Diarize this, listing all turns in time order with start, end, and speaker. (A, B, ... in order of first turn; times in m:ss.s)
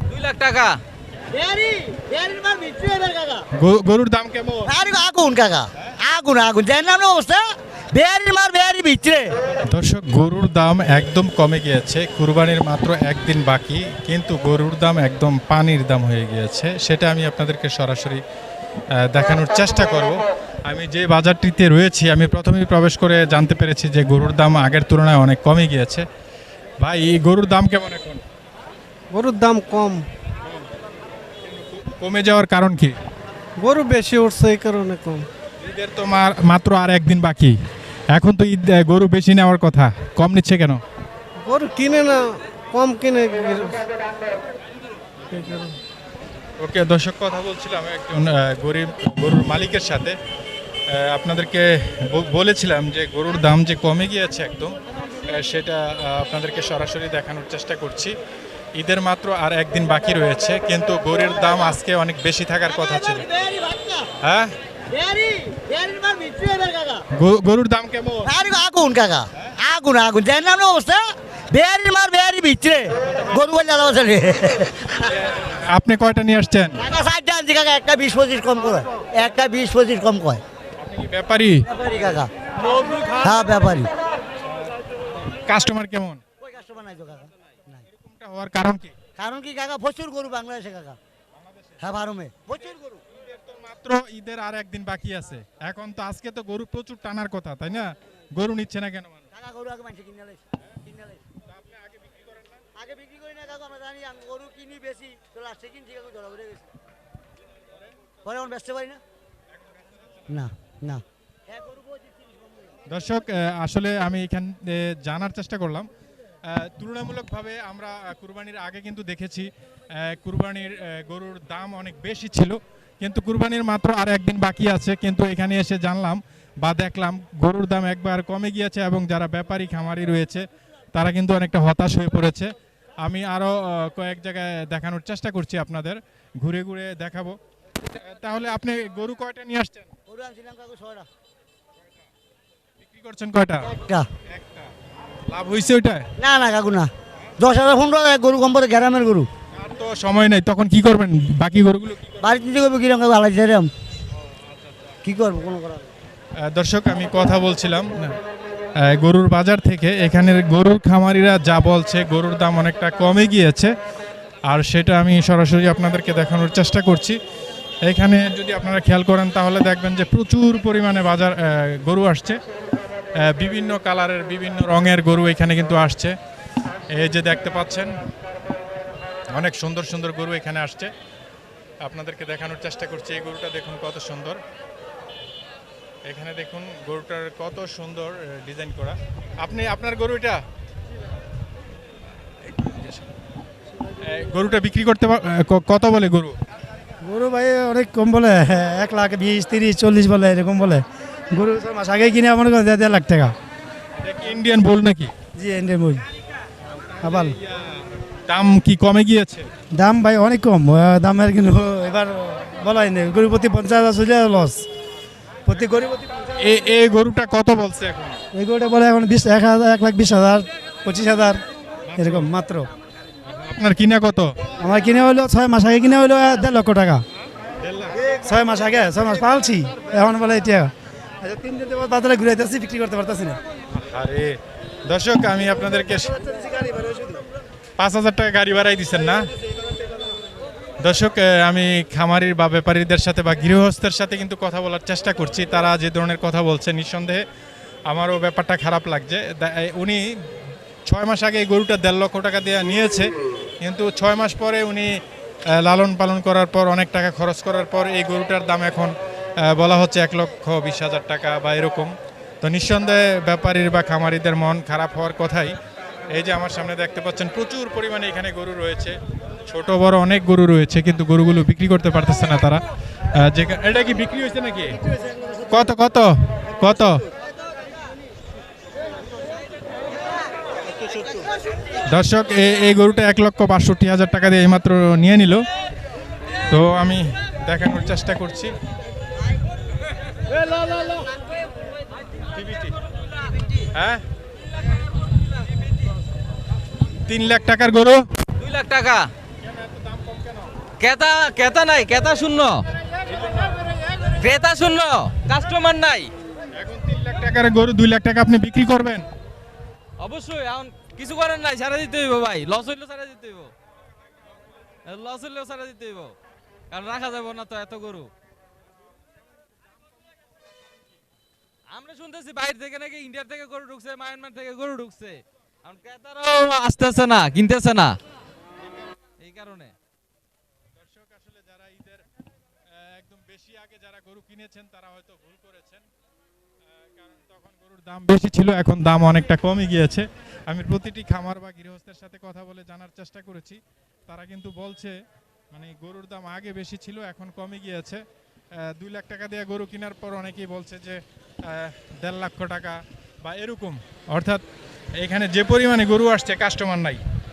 0:00.1-0:00.8 A
0:01.3-0:03.4 B
0:03.5-0:04.8 C
0:04.7-0:07.4 B
0:07.9-0:09.3 B
0:09.6-0:18.2 C
0:18.9-0:26.1 C
0:26.8-0:28.2 C
0:29.1-0:30.1 D
0:31.5-0:33.0 C
0:33.6-0:35.3 D
0:35.6-0:37.6 C
0:38.1-0:40.8 C
0:41.4-0:43.8 D
0:45.3-0:45.8 D
0:46.6-0:50.2 C
0:50.9-0:58.1 C
0:58.8-1:03.2 C
1:02.7-1:04.1 B
1:04.2-1:04.5 C
1:04.9-1:07.0 B
1:07.1-1:08.4 C
1:08.2-1:11.0 B
1:11.5-1:15.1 B
1:15.1-1:16.8 C
1:16.8-1:20.4 B
1:20.8-1:21.7 C
1:21.7-1:22.3 B
1:23.0-1:23.9 B
1:25.5-1:26.2 C
1:26.4-1:27.8 B
1:27.9-1:29.0 C
1:29.2-1:31.0 B
1:31.8-1:33.0 B
1:33.2-1:39.3 C
1:39.3-1:41.2 B
1:41.5-1:42.6 C
1:42.8-1:46.7 B
1:48.2-1:49.0 B
1:49.8-1:50.2 C
1:50.3-1:52.7 B
1:52.9-1:55.9 C
1:56.5-2:19.9 C
2:20.1-2:21.1 B
2:22.8-2:23.7 C
2:23.6-2:24.1 B
2:24.3-2:24.7 C
2:25.3-2:26.1 C
2:26.2-2:29.3 B
2:29.5-2:32.2 C
2:32.2-2:33.7 B
2:35.0-2:35.9 B
2:36.5-2:38.2 C
2:38.8-2:43.7 C
2:44.5-2:47.2 C
2:47.9-2:52.4 C
2:53.2-2:56.2 C
2:56.9-2:57.9 C
2:59.3-3:00.9 C
3:01.8-3:04.4 C
3:06.1-3:10.4 C
3:12.5-3:13.0 C
3:14.0-3:16.4 C
3:17.0-3:23.3 E
3:24.0-3:25.1 C
3:25.4-3:26.0 E
3:27.0-3:27.4 E
3:28.3-3:29.5 C
3:29.8-3:34.6 E
3:35.5-3:36.2 E
3:36.4-3:38.2 C
3:38.3-3:41.4 E
3:41.9-3:42.3 C
3:42.0-3:42.7 E
3:43.3-3:44.4 C
3:44.6-3:47.0 E
3:47.6-3:48.0 C
3:48.0-3:50.7 E
3:51.2-3:53.4 E
3:53.8-3:56.1 C
3:56.2-3:57.2 E
3:57.8-3:59.2 C
4:00.8-4:07.2 C
4:07.9-4:10.2 C
4:10.9-4:15.0 C
4:15.6-4:25.6 C
4:26.1-4:32.6 C
4:33.2-4:34.8 C
4:35.5-4:37.0 C
4:41.9-4:45.4 C
4:46.5-4:48.5 C
4:52.4-4:52.7 C
4:53.7-4:54.0 C
4:57.1-4:58.0 C
4:58.4-4:59.1 A
4:59.4-5:00.5 C
5:00.8-5:02.7 A
5:04.0-5:06.1 A
5:06.5-5:09.1 C
5:10.0-5:13.5 A
5:14.8-5:16.1 A
5:16.7-5:18.1 A
5:21.7-5:28.0 A
5:29.2-5:29.7 A
5:30.8-5:32.0 C
5:32.7-5:35.9 C
5:36.8-5:45.0 C
5:45.5-5:48.0 C
5:48.6-5:54.4 C
5:55.0-5:57.0 C